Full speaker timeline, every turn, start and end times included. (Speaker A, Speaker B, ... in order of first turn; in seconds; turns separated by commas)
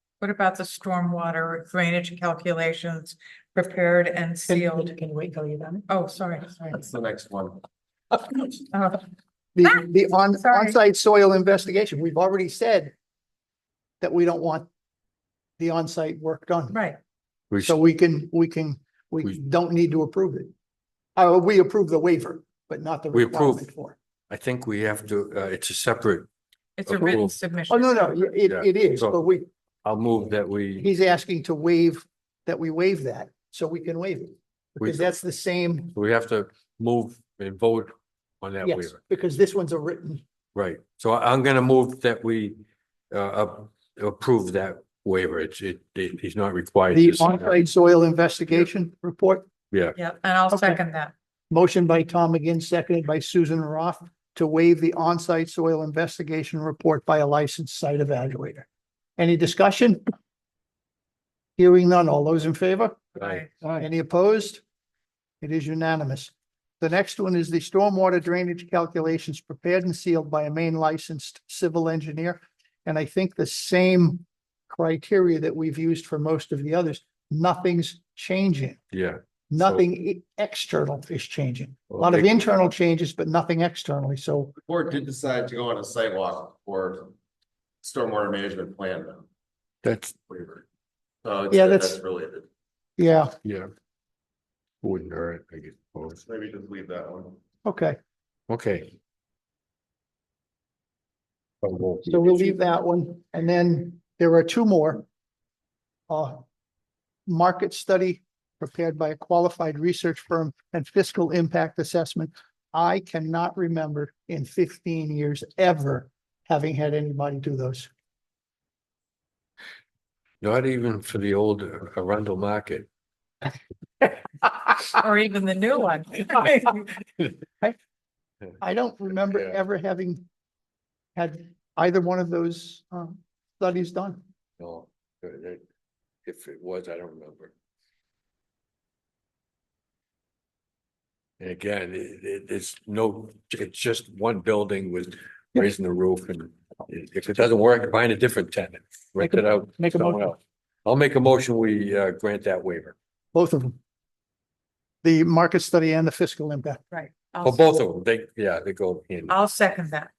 Speaker A: 0.2-5.0, Speaker B: 4.5-5.8, Speaker A: 5.9-6.8, Speaker C: 6.7-7.6, Speaker A: 8.7-9.0, Speaker B: 9.6-12.9, Speaker A: 9.6-10.8, Speaker B: 14.0-14.7, Speaker B: 15.6-16.8, Speaker A: 16.7-17.0, Speaker D: 17.5-17.8, Speaker B: 17.6-20.5, Speaker B: 21.2-24.0, Speaker D: 23.1-23.7, Speaker D: 24.3-26.3, Speaker A: 26.8-28.3, Speaker D: 26.9-27.3, Speaker B: 27.7-29.5, Speaker D: 28.5-29.2, Speaker D: 29.8-30.9, Speaker B: 30.8-35.9, Speaker D: 34.8-35.1, Speaker D: 36.0-39.0, Speaker B: 38.6-40.2, Speaker D: 40.5-47.6, Speaker B: 46.9-49.5, Speaker D: 49.7-50.0, Speaker A: 50.0-51.1, Speaker B: 50.5-50.8, Speaker B: 51.5-60.0, Speaker B: 61.6-63.1, Speaker A: 63.1-63.5, Speaker B: 63.8-64.6, Speaker B: 65.4-78.8, Speaker D: 78.9-79.8, Speaker B: 79.5-84.5, Speaker D: 81.9-82.4, Speaker C: 84.7-87.1, Speaker C: 87.8-89.3, Speaker D: 89.8-90.2, Speaker C: 90.3-90.6, Speaker C: 91.2-92.5, Speaker B: 91.5-92.0, Speaker B: 93.0-93.3, Speaker D: 93.4-93.7, Speaker D: 94.8-96.2, Speaker C: 96.2-97.4, Speaker B: 97.6-98.0, Speaker D: 98.5-98.9, Speaker D: 101.6-102.5, Speaker B: 102.1-105.0, Speaker B: 106.1-106.5, Speaker B: 107.3-117.9, Speaker D: 120.4-122.9, Speaker A: 125.0-126.9, Speaker B: 128.6-130.3, Speaker B: 131.2-134.2, Speaker D: 134.6-135.6, Speaker D: 136.2-137.5, Speaker D: 141.4-152.9, Speaker B: 149.2-150.3, Speaker B: 153.3-153.8, Speaker B: 155.0-156.8, Speaker A: 156.9-157.8, Speaker D: 157.4-159.3, Speaker A: 159.3-160.1